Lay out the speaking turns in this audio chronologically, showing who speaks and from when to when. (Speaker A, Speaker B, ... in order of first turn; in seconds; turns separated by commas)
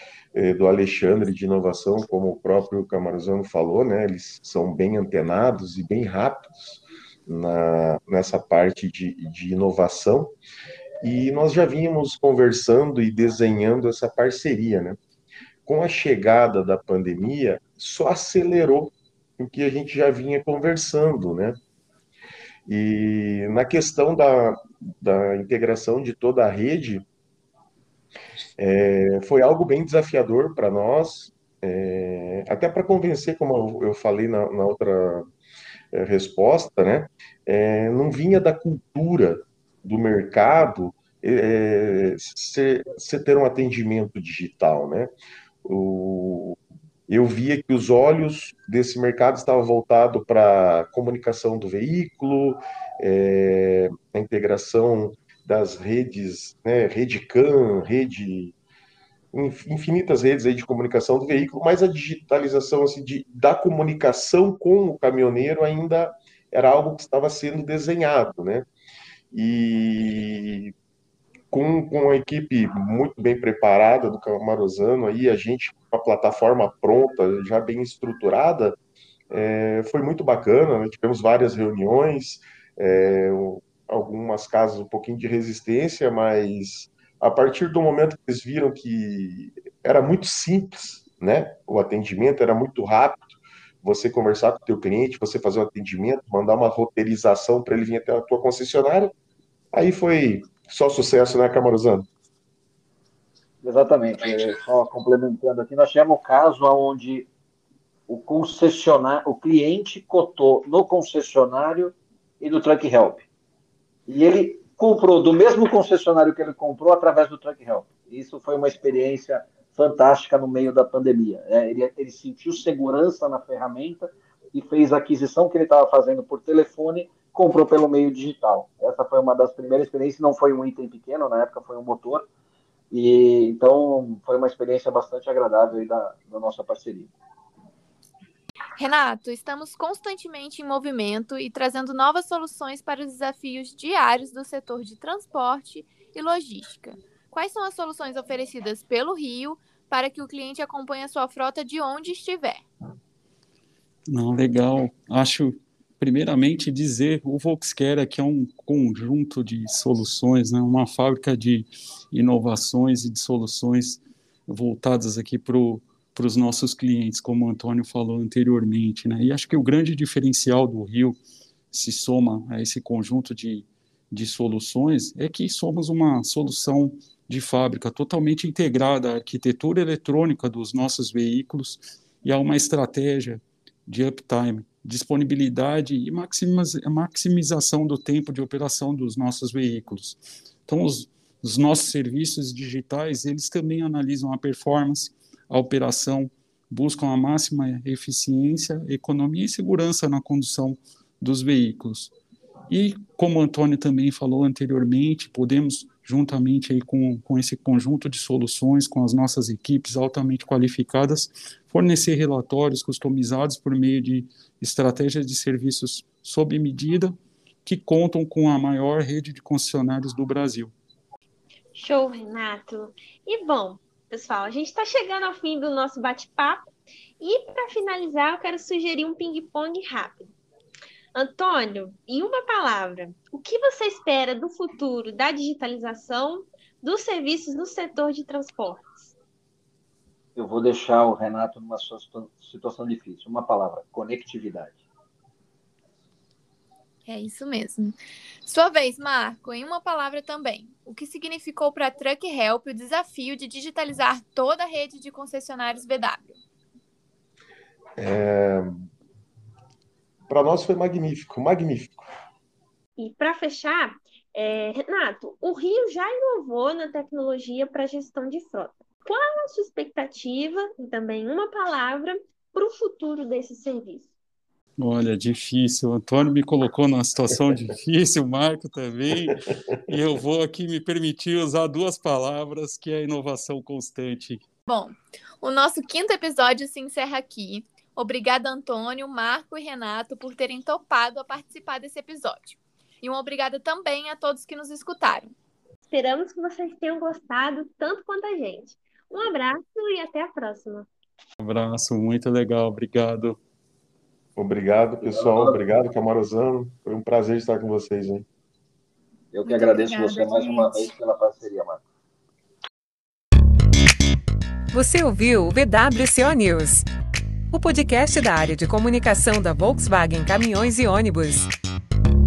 Speaker A: 0.3-10.3, Speaker A: 11.0-15.0, Speaker A: 15.7-21.6, Speaker A: 22.7-27.0, Speaker A: 28.6-35.2, Speaker A: 35.9-45.1, Speaker A: 45.6-46.6, Speaker A: 47.1-58.5, Speaker A: 59.3-68.7, Speaker A: 69.3-70.7, Speaker A: 71.5-78.8, Speaker A: 79.3-99.1, Speaker A: 99.7-102.1, Speaker B: 103.6-107.3, Speaker B: 108.1-113.3, Speaker B: 114.1-132.3, Speaker B: 132.9-137.1, Speaker C: 138.8-152.6, Speaker D: 154.1-171.2, Speaker D: 171.7-202.1, Speaker D: 202.7-220.7, Speaker E: 221.8-226.7, Speaker E: 227.2-230.3, Speaker E: 231.2-239.1, Speaker B: 240.4-244.8, Speaker C: 247.1-256.4, Speaker A: 258.0-258.9, Speaker A: 260.3-262.1, Speaker E: 263.0-274.1, Speaker D: 274.8-284.4, Speaker C: 284.7-295.3, Speaker E: 295.9-300.9, Speaker D: 301.4-303.4, Speaker A: 304.4-308.2, Speaker B: 305.0-305.6, Speaker B: 309.3-311.8, Speaker C: 309.5-310.9, Speaker F: 314.7-316.9, Speaker F: 317.5-321.5